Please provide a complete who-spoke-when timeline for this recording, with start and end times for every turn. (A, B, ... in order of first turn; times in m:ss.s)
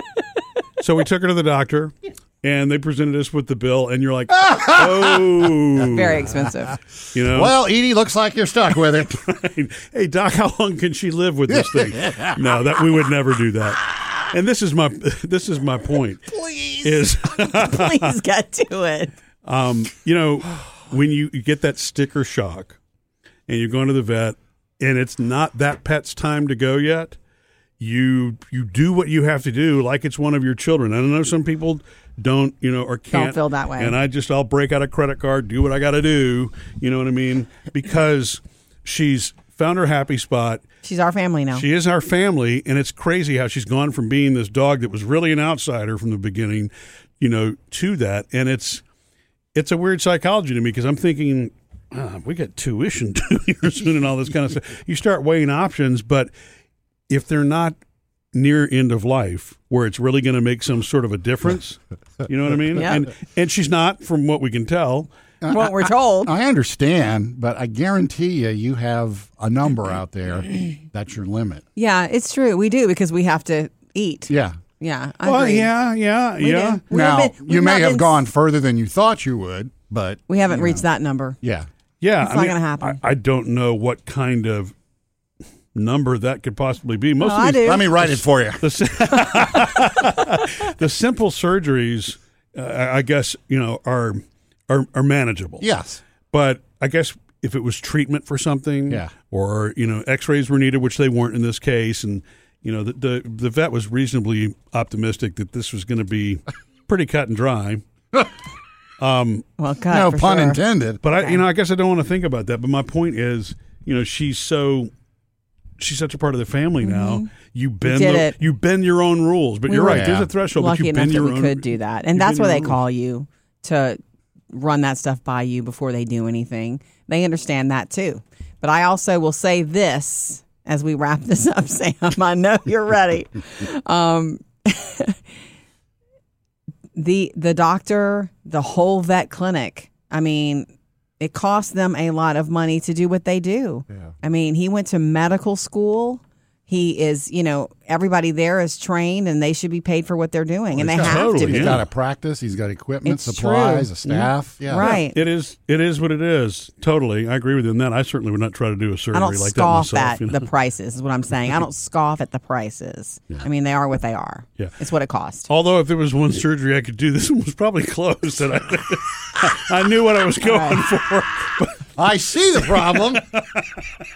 0:00.8-0:06.5 A
0:04.5-0:05.3 B
0:05.8-0:06.8 C
0:07.1-0:07.6 A
0:07.3-0:09.1 B
0:09.0-0:18.1 A
0:11.5-0:12.4 B
0:16.3-0:17.0 B
0:17.3-0:19.1 C
0:19.4-0:22.8 A
0:23.5-0:27.2 A
0:27.8-0:40.6 A
0:33.1-0:34.0 C
0:40.8-0:41.7 C
0:41.5-0:48.8 A
0:49.6-0:56.3 A
0:57.1-0:57.8 A
0:58.3-1:05.1 A
1:02.8-1:03.0 C
1:05.4-1:11.6 B
1:05.5-1:06.3 C
1:11.8-1:15.7 C
1:14.3-1:14.6 B
1:15.2-1:16.8 A
1:16.4-1:18.2 C
1:16.9-1:20.8 B
1:20.3-1:21.4 C
1:21.4-1:21.7 B
1:22.0-1:24.8 A
1:22.2-1:23.0 C
1:25.7-1:35.7 A
1:27.2-1:27.9 C
1:27.6-1:28.7 B
1:35.6-1:36.0 B
1:36.3-1:47.8 A
1:49.0-1:49.4 A
1:49.6-1:50.6 C
1:49.9-1:51.0 B
1:51.0-1:54.9 A
1:55.8-2:02.8 A
1:56.8-1:57.3 C
1:57.8-1:58.4 C
1:59.7-2:04.0 C
1:59.8-2:00.3 B
2:04.5-2:15.2 C
2:17.0-2:20.7 C
2:21.2-2:31.8 C
2:30.8-2:35.0 B
2:31.0-2:31.8 A
2:33.0-2:35.2 C
2:34.8-2:40.5 A
2:39.1-2:45.5 C
2:45.5-2:51.9 A
2:50.4-2:50.8 C
2:52.0-2:53.2 B
2:52.6-2:53.6 A